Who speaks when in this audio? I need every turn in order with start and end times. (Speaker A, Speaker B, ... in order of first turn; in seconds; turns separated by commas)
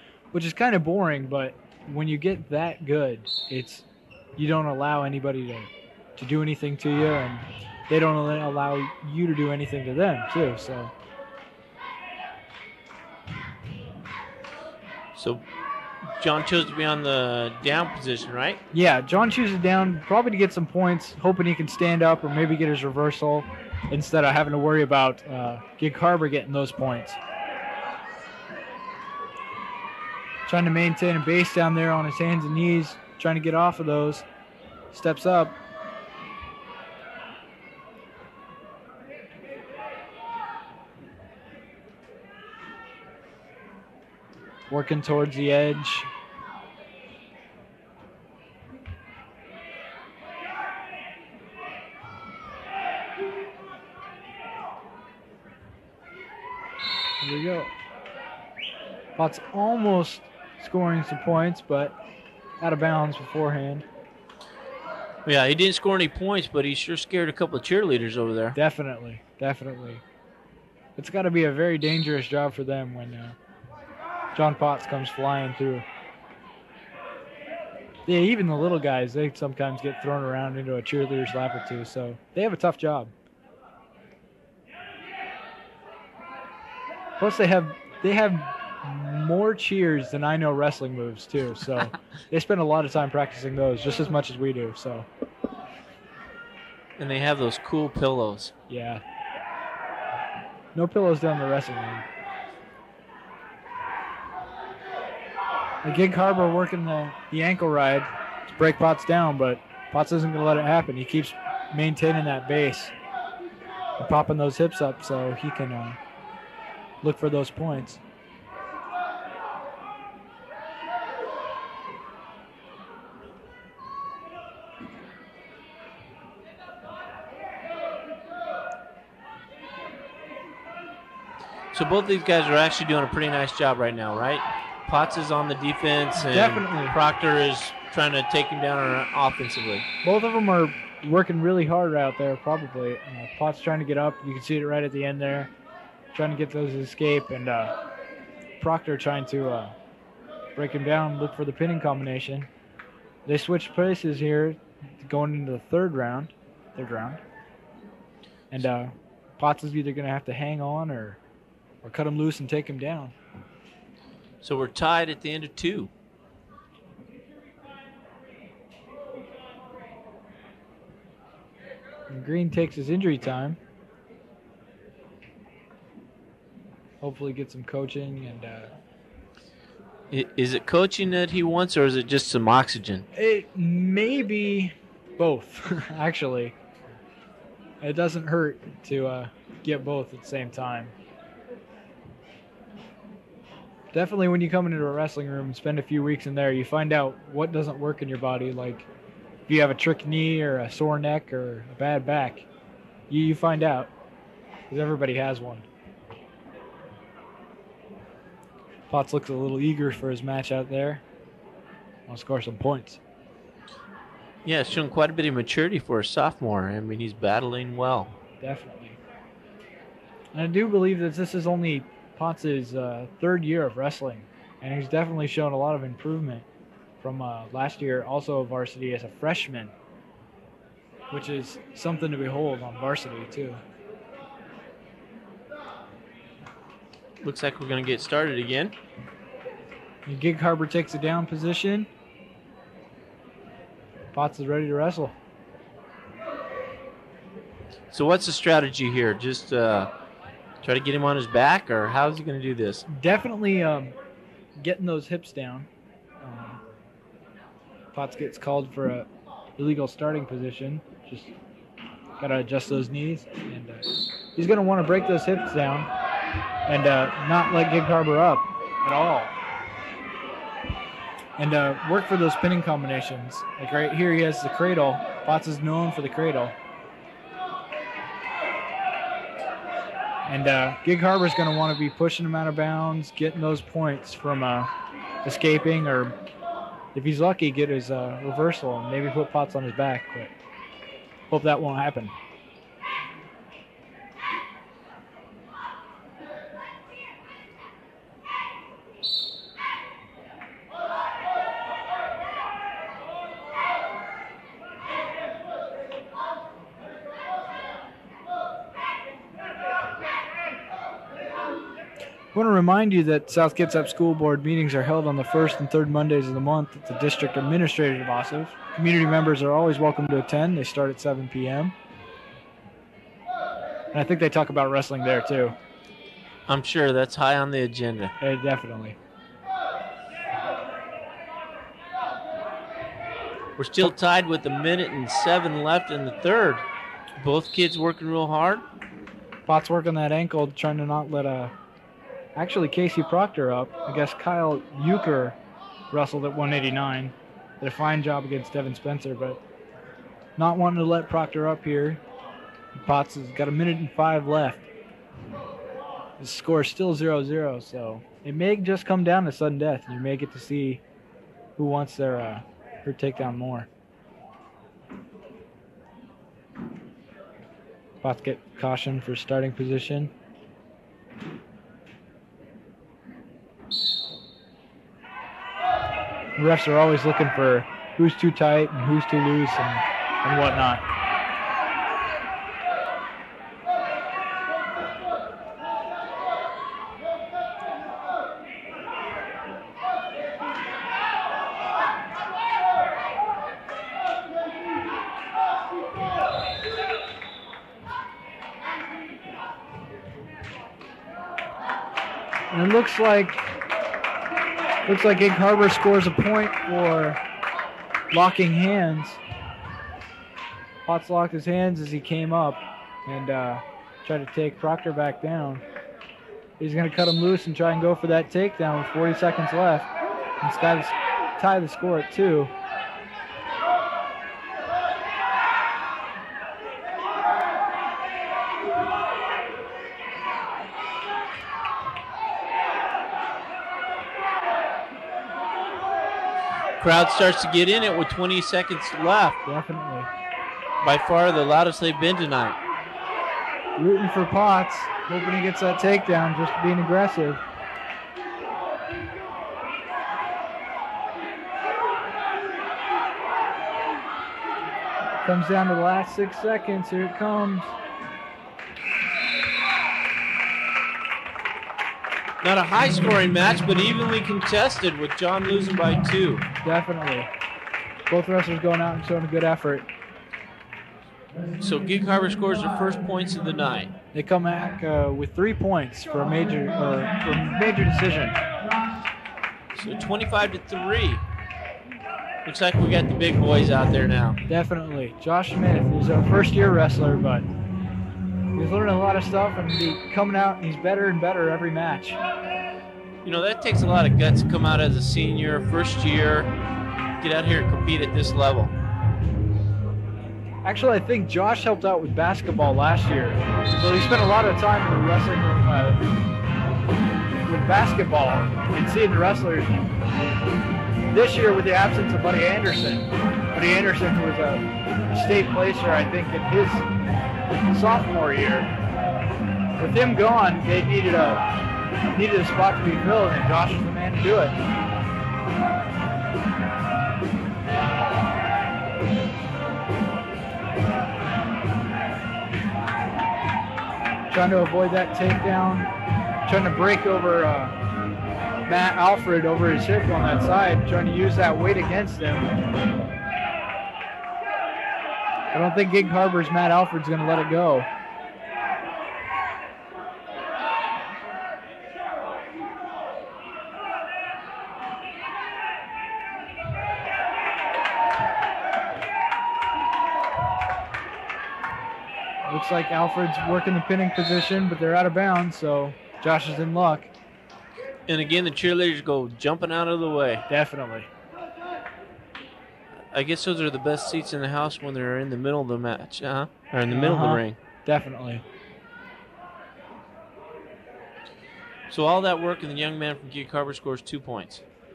Speaker A: 0.3-10.9, Speaker B: 15.2-15.4, Speaker B: 16.2-18.6, Speaker A: 18.7-27.2, Speaker A: 30.5-34.3, Speaker A: 34.9-35.6, Speaker A: 44.7-46.1, Speaker A: 57.2-57.7, Speaker A: 59.2-62.0, Speaker A: 62.6-63.9, Speaker B: 65.3-68.6, Speaker A: 68.5-70.0, Speaker A: 71.0-73.4, Speaker A: 74.3-75.9, Speaker A: 78.1-83.1, Speaker A: 87.2-95.1, Speaker B: 97.0-98.5, Speaker A: 98.7-99.0, Speaker A: 100.7-102.1, Speaker A: 105.8-112.9, Speaker A: 114.0-116.0, Speaker A: 117.0-118.0, Speaker B: 131.7-139.9, Speaker A: 136.2-136.9, Speaker A: 140.0-145.5, Speaker A: 146.1-147.8, Speaker A: 148.6-149.8, Speaker A: 150.6-152.5, Speaker A: 153.3-157.2, Speaker A: 158.5-161.2, Speaker A: 161.8-163.2, Speaker B: 164.4-165.9, Speaker A: 172.1-173.6, Speaker A: 177.0-178.7, Speaker B: 180.1-183.1, Speaker A: 183.2-186.6, Speaker A: 187.8-190.9, Speaker A: 193.9-198.9, Speaker A: 199.5-202.5, Speaker A: 203.1-203.9, Speaker A: 204.7-205.7, Speaker A: 208.9-211.0, Speaker A: 212.1-213.0, Speaker B: 214.4-218.2, Speaker A: 218.4-219.0, Speaker A: 220.3-226.5, Speaker A: 227.0-229.7, Speaker A: 231.1-233.6, Speaker B: 237.2-238.8, Speaker A: 240.1-241.9, Speaker A: 244.1-245.2, Speaker B: 247.9-249.9, Speaker B: 250.6-252.8, Speaker A: 252.9-253.9, Speaker A: 254.6-255.7, Speaker A: 256.2-256.6, Speaker A: 257.9-261.3, Speaker A: 262.2-265.9, Speaker A: 266.7-269.4, Speaker A: 271.4-276.6, Speaker A: 280.3-284.7, Speaker A: 285.2-286.1, Speaker A: 286.9-290.3, Speaker A: 291.3-292.1, Speaker A: 312.3-321.8, Speaker A: 323.9-325.6, Speaker B: 326.5-328.1, Speaker A: 328.2-329.0, Speaker B: 333.6-336.6, Speaker B: 337.2-338.7, Speaker A: 339.5-341.5, Speaker A: 342.4-345.4, Speaker A: 345.9-349.4, Speaker A: 350.4-352.0, Speaker A: 352.8-354.7, Speaker A: 356.2-360.8, Speaker A: 361.6-363.7, Speaker A: 368.0-370.1, Speaker A: 376.4-380.8, Speaker A: 402.5-403.5, Speaker A: 404.9-407.2, Speaker A: 408.1-409.2, Speaker A: 410.9-415.6, Speaker A: 416.6-419.9, Speaker A: 420.4-422.5, Speaker B: 436.8-439.4, Speaker A: 439.5-440.1, Speaker B: 440.8-442.6, Speaker A: 443.8-447.4, Speaker A: 455.2-457.7, Speaker B: 462.4-466.4, Speaker A: 466.6-467.3, Speaker A: 468.1-469.9, Speaker B: 471.6-473.9, Speaker A: 474.1-478.4, Speaker B: 479.7-481.2, Speaker B: 482.4-484.4, Speaker A: 484.5-487.5, Speaker A: 488.6-492.2, Speaker B: 493.2-496.5, Speaker B: 497.2-498.7, Speaker A: 500.6-506.1, Speaker A: 507.4-509.9, Speaker A: 511.1-516.9, Speaker A: 517.7-518.7, Speaker A: 519.8-521.5, Speaker A: 522.1-524.6, Speaker A: 534.3-535.9, Speaker A: 536.5-537.8, Speaker A: 538.7-542.5, Speaker A: 545.5-547.9, Speaker A: 562.5-567.1, Speaker B: 568.1-570.5, Speaker A: 570.5-571.1, Speaker B: 573.1-577.6, Speaker A: 576.9-578.4, Speaker B: 581.9-584.6